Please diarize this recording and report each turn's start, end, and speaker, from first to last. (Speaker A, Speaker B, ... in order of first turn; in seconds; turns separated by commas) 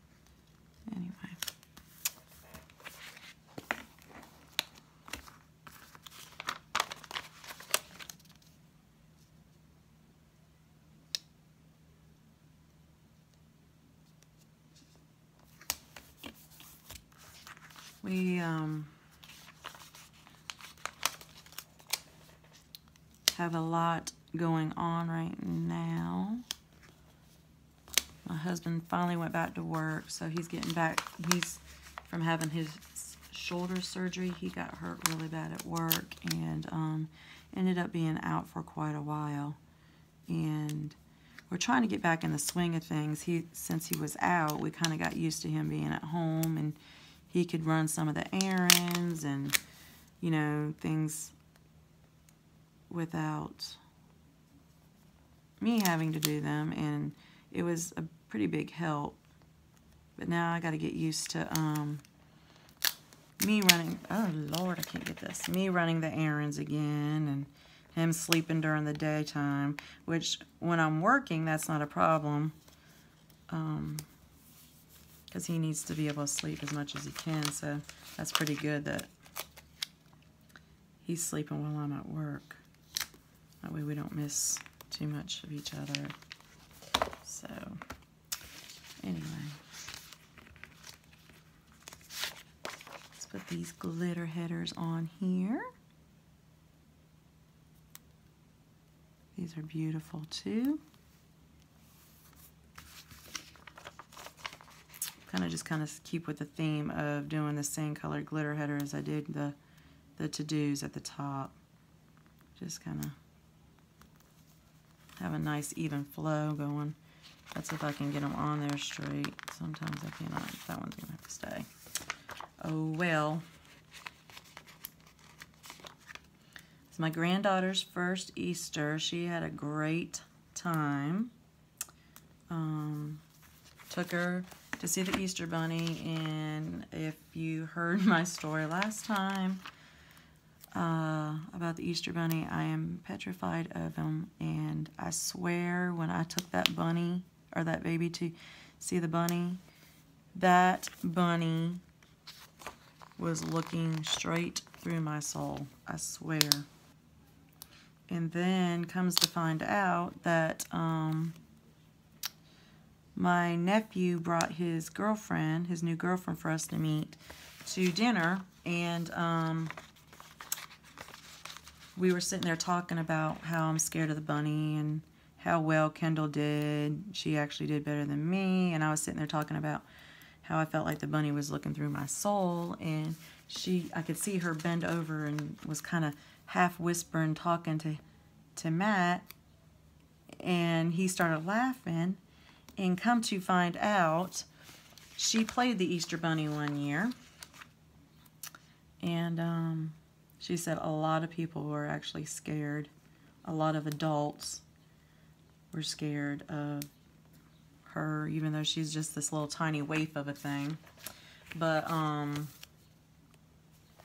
Speaker A: 0.9-1.4, Speaker A: 18.0-18.9, Speaker A: 23.3-26.4, Speaker A: 28.2-39.6, Speaker A: 40.3-41.0, Speaker A: 41.5-46.8, Speaker A: 47.3-49.6, Speaker A: 50.2-51.3, Speaker A: 52.9-53.8, Speaker A: 55.6-59.2, Speaker A: 60.2-62.0, Speaker A: 63.4-72.5, Speaker A: 73.5-74.1, Speaker A: 75.3-79.1, Speaker A: 81.0-82.6, Speaker A: 83.6-86.2, Speaker A: 87.2-87.8, Speaker A: 89.0-89.6, Speaker A: 93.2-95.7, Speaker A: 99.3-100.8, Speaker A: 105.2-109.5, Speaker A: 110.2-111.5, Speaker A: 112.6-113.2, Speaker A: 115.2-117.0, Speaker A: 117.5-121.7, Speaker A: 122.6-123.4, Speaker A: 126.9-131.3, Speaker A: 132.5-133.2, Speaker A: 133.9-139.6, Speaker A: 140.7-149.6, Speaker A: 150.3-151.8, Speaker A: 153.2-156.7, Speaker A: 158.1-161.4, Speaker A: 163.1-169.7, Speaker A: 171.9-179.8, Speaker A: 180.4-188.0, Speaker A: 188.6-189.3, Speaker A: 190.4-192.2, Speaker A: 192.8-194.5, Speaker A: 195.2-197.1, Speaker A: 199.0-202.9, Speaker A: 203.4-204.6, Speaker A: 205.7-206.9, Speaker A: 207.8-210.8, Speaker A: 211.5-212.5